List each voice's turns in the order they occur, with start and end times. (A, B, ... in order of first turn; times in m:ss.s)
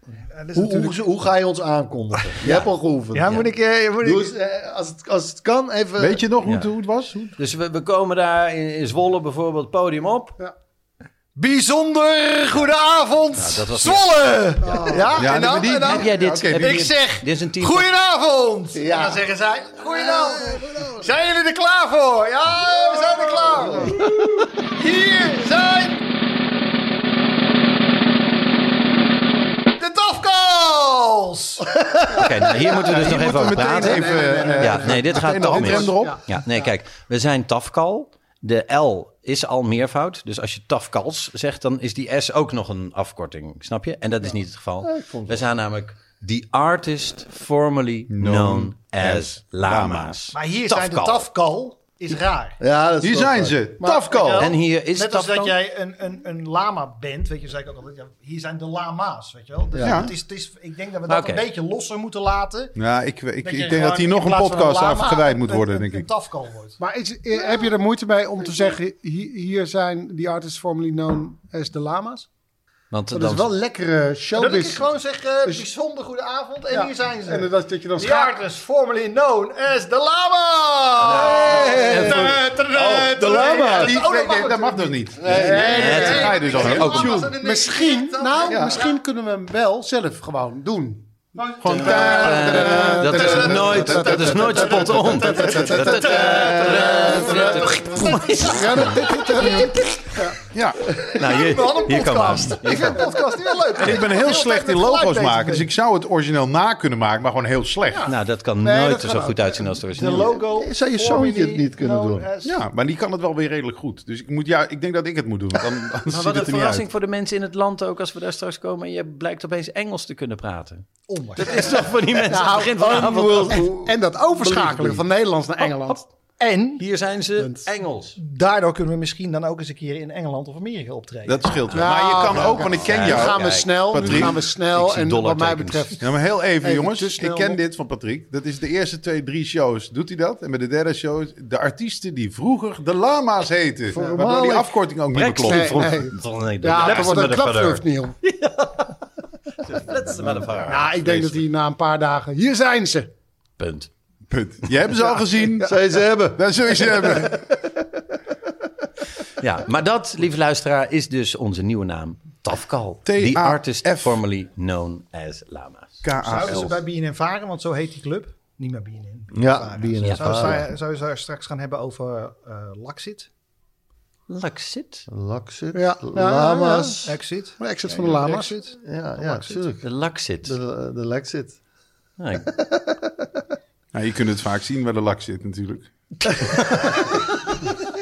0:00.3-0:01.0 A
0:00.5-0:03.4 B
0:03.1-0:04.3 C
0:04.0-0:06.2 B
0:06.0-0:07.3 D
0:07.4-0:10.4 E
0:11.4-0:26.0 C
0:13.4-0:14.1 E
0:14.6-0:15.2 A
0:15.2-0:16.8 D
0:15.8-0:17.9 E
0:18.7-0:19.2 B
0:19.9-0:21.0 B
0:23.2-0:23.9 B
0:29.8-0:32.0 C
0:32.1-0:51.3 E
0:32.9-0:36.2 D
0:33.4-0:36.7 A
0:44.8-0:45.4 B
0:48.1-0:50.2 D
0:50.3-0:52.6 C
0:52.6-0:53.6 B
0:53.0-0:54.5 D
0:53.8-0:54.3 A
0:53.9-1:02.8 C
0:54.4-0:55.6 E
0:59.7-1:00.1 B
0:59.8-1:00.1 D
1:01.1-1:01.5 E
1:02.8-1:06.1 D
1:03.4-1:06.8 C
1:06.8-1:12.3 A
1:12.9-1:13.5 E
1:13.1-1:14.8 A
1:14.3-1:29.0 C
1:16.7-1:18.4 A
1:21.1-1:22.4 E
1:21.2-1:27.3 D
1:21.5-1:21.8 B
1:23.4-1:23.9 B
1:25.2-1:27.3 B
1:25.6-1:27.1 E
1:27.4-1:40.4 A
1:28.5-1:28.8 B
1:31.4-1:38.5 C
1:31.6-1:32.4 D
1:31.6-1:39.2 E
1:33.3-1:33.8 D
1:34.6-1:38.0 B
1:40.5-1:41.0 D
1:41.1-1:43.0 E
1:41.3-1:45.7 C
1:43.8-1:48.1 D
1:48.1-1:50.4 E
1:48.6-1:50.3 A
1:49.9-1:52.6 C
1:50.4-1:52.3 B
1:52.4-1:56.8 D
1:56.1-2:03.6 E
2:01.1-2:02.2 C
2:02.3-2:06.1 A
2:02.8-2:05.0 B
2:06.4-2:06.8 C
2:06.8-2:08.2 E
2:08.2-2:12.0 C
2:11.3-2:14.4 D
2:11.7-2:17.6 A
2:12.6-2:16.0 E
2:16.0-2:26.1 D
2:23.9-2:24.7 B
2:24.0-2:24.3 A
2:25.1-2:28.9 E
2:25.4-2:28.2 A
2:26.8-2:27.1 D
2:29.7-2:31.4 E
2:30.7-2:33.1 A
2:33.6-2:33.9 E
2:34.3-2:37.4 D
2:35.6-2:37.3 B
2:39.4-2:46.0 E
2:43.1-2:44.2 D
2:46.0-2:46.7 D
2:46.2-2:53.3 C
2:49.3-2:50.7 B
2:50.0-2:50.6 E
2:54.3-2:55.1 E
2:55.1-2:57.1 B
2:55.7-2:58.6 A
2:57.0-2:59.6 C
2:58.8-2:59.9 B
2:59.8-3:00.5 E
3:00.4-3:01.6 B
3:02.2-3:02.5 E
3:03.9-3:06.4 D